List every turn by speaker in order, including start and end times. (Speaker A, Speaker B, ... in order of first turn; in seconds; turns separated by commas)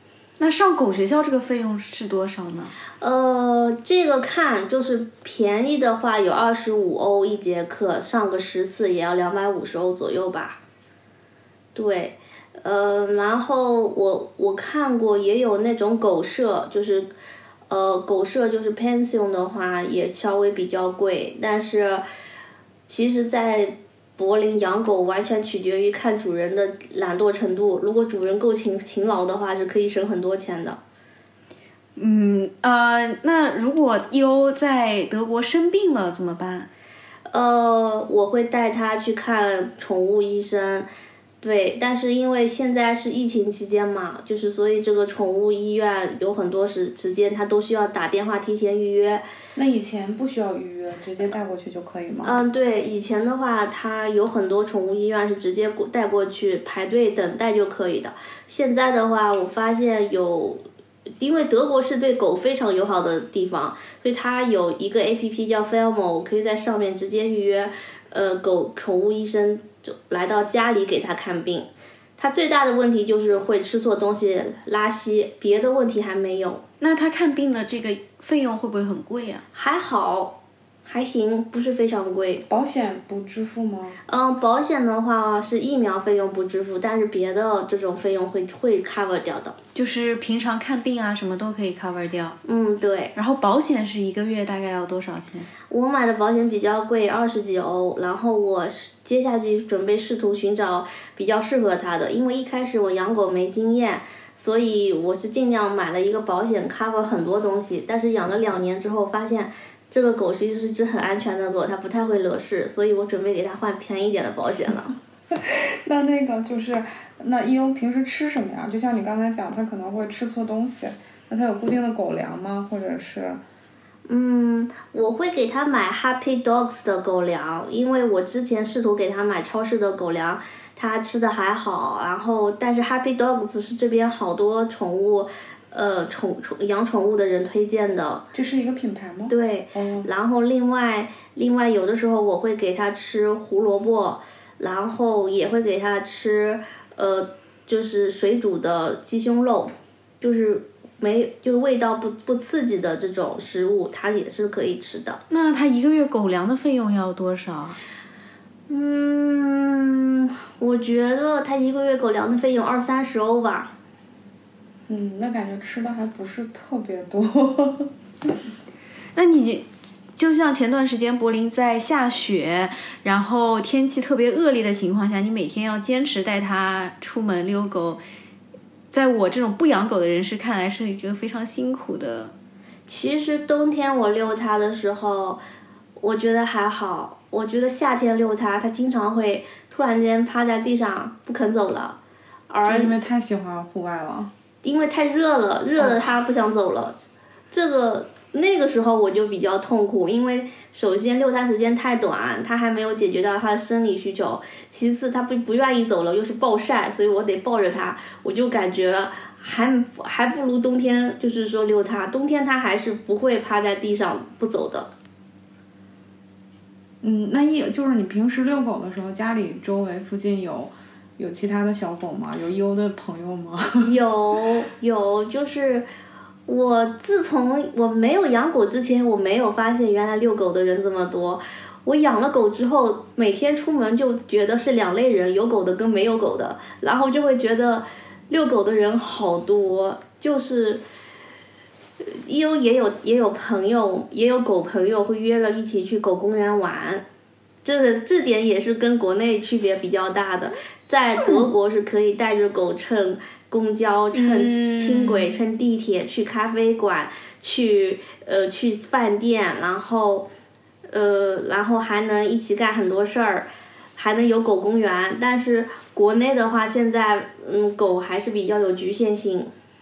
Speaker A: 0.4-2.7, Speaker B: 3.0-10.6, Speaker B: 11.8-17.1, Speaker B: 17.7-22.0, Speaker B: 22.9-30.8, Speaker A: 32.0-36.7, Speaker B: 37.3-40.9, Speaker B: 41.4-49.2, Speaker C: 49.6-52.4, Speaker B: 52.2-60.6, Speaker B: 61.2-76.6, Speaker A: 76.8-79.4, Speaker B: 79.5-82.4, Speaker C: 82.5-84.0, Speaker B: 84.1-89.6, Speaker A: 89.8-92.4, Speaker B: 92.5-93.1, Speaker A: 93.2-95.5, Speaker B: 95.7-115.0, Speaker C: 115.5-123.4, Speaker B: 124.1-138.2, Speaker C: 138.3-140.1, Speaker B: 139.3-155.2, Speaker A: 155.3-157.8, Speaker B: 158.7-163.7, Speaker C: 164.9-167.9, Speaker A: 169.2-178.0, Speaker A: 178.9-182.3, Speaker B: 182.9-185.4, Speaker B: 186.0-192.0, Speaker B: 192.5-193.0, Speaker C: 192.6-194.3, Speaker B: 194.6-196.9, Speaker B: 197.5-214.9, Speaker C: 217.0-223.9, Speaker B: 223.8-225.9, Speaker B: 226.5-240.8, Speaker B: 242.0-247.0, Speaker B: 247.7-260.3, Speaker A: 254.1-255.3, Speaker B: 260.9-269.5